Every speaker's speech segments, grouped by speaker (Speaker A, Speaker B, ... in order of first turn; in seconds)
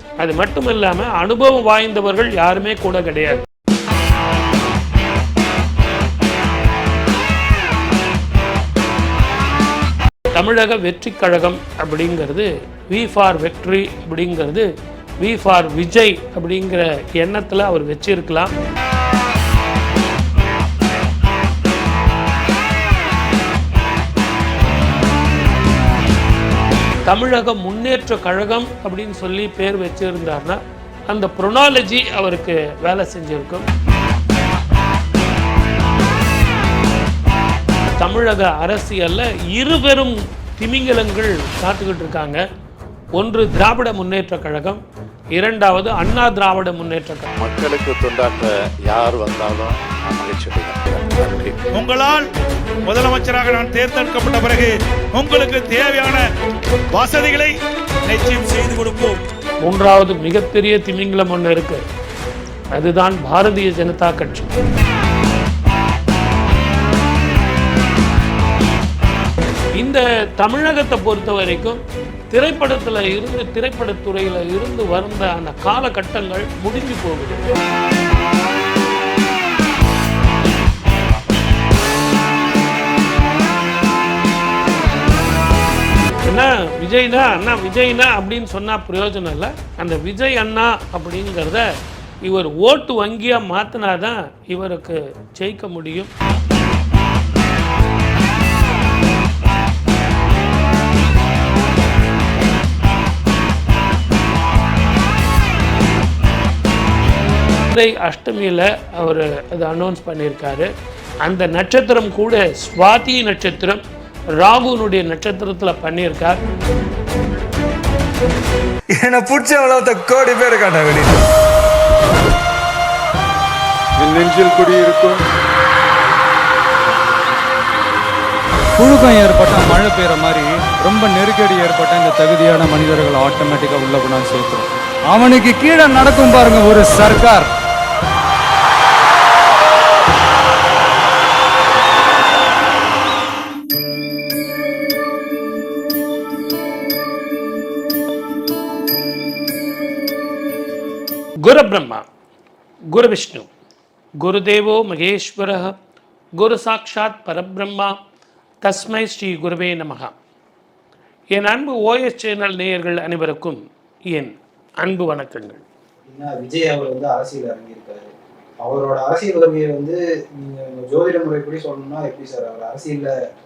Speaker A: 0.2-3.4, 10.3-14.7, 15.2-18.5, 27.1-33.7, 38.0-42.4, 43.2-44.8, 45.3-47.3, 59.6-61.8, 62.7-64.5, 69.8-77.5, 86.2-91.7, 92.2-96.1, 107.6-110.7, 111.2-113.8, 114.4-116.4, 151.4-152.0, 152.9-153.5, 154.2-155.7, 156.4-158.0, 158.6-160.1, 161.3-163.6, 164.1-165.6
Speaker B: 47.4-51.6
Speaker C: 51.8-52.2, 52.9-56.2, 56.9-57.5, 58.1-59.2
Speaker D: 119.0-121.2
Speaker E: 124.0-125.2, 128.8-137.5
Speaker F: 166.1-168.1, 168.6-173.2